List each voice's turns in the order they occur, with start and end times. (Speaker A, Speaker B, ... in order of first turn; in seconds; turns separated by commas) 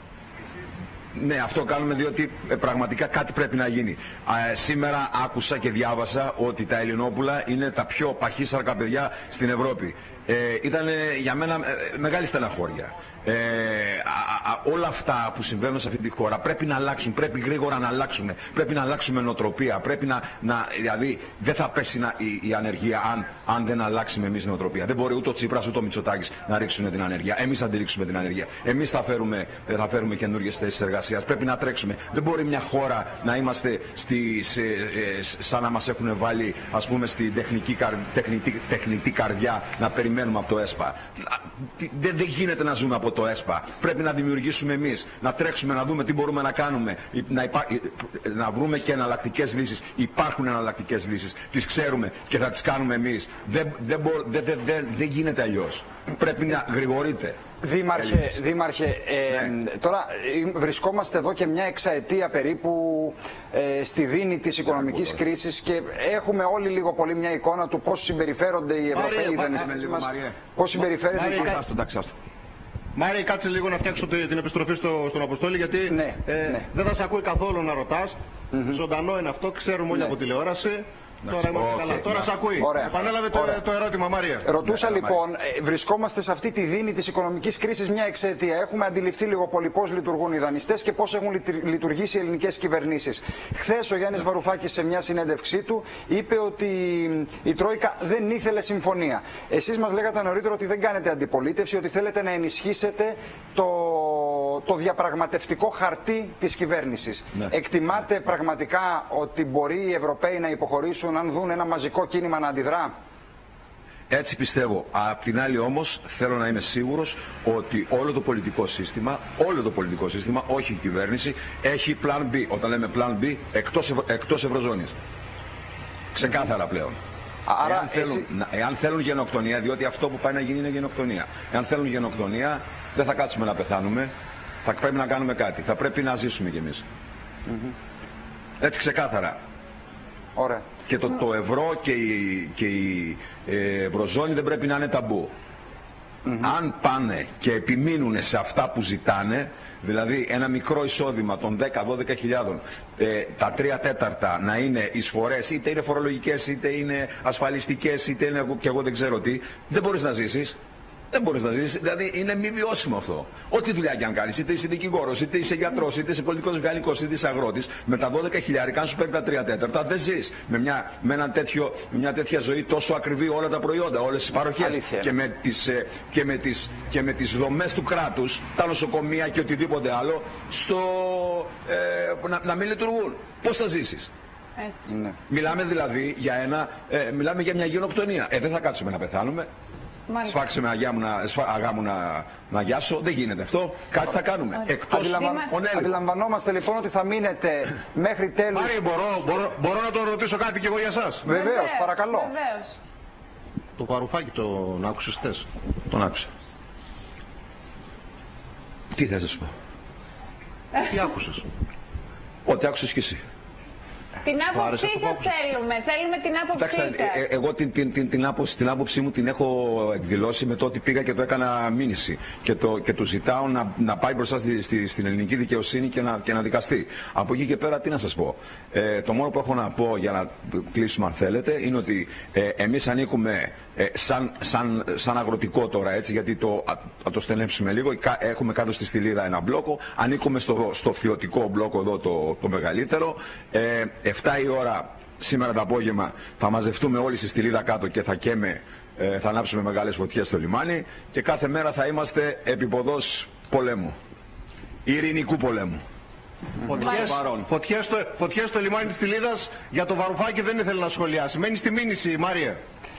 Speaker A: 1.1-57.4, Speaker B: 57.6-71.6, Speaker A: 57.9-58.4, Speaker A: 64.7-65.2, Speaker A: 68.9-70.4, Speaker C: 71.1-71.5, Speaker A: 71.3-72.1, Speaker C: 72.9-84.5, Speaker B: 75.9-76.6, Speaker B: 78.5-78.8, Speaker A: 81.4-82.3, Speaker B: 82.6-83.5, Speaker B: 84.4-112.9, Speaker A: 84.6-85.2, Speaker A: 114.1-124.9, Speaker A: 126.1-127.0, Speaker B: 127.5-128.3, Speaker A: 127.6-134.1, Speaker A: 134.6-136.8, Speaker B: 137.5-137.7, Speaker A: 138.6-139.4, Speaker B: 140.3-140.7, Speaker A: 140.8-145.3, Speaker A: 146.4-160.6, Speaker A: 161.1-184.1, Speaker B: 174.6-175.1, Speaker D: 184.6-184.9, Speaker B: 184.9-185.1, Speaker A: 185.3-189.5, Speaker D: 190.1-190.4, Speaker A: 190.2-195.9, Speaker D: 194.6-195.5, Speaker B: 194.9-198.8, Speaker C: 198.5-201.2, Speaker B: 201.2-202.3, Speaker D: 201.2-202.8, Speaker C: 203.8-205.5, Speaker A: 205.9-206.3, Speaker A: 208.9-209.5, Speaker C: 210.8-211.4, Speaker A: 212.4-213.2, Speaker D: 214.2-217.3, Speaker C: 214.5-215.3, Speaker A: 216.5-253.9, Speaker A: 254.8-255.8, Speaker C: 256.6-262.6, Speaker A: 256.8-257.5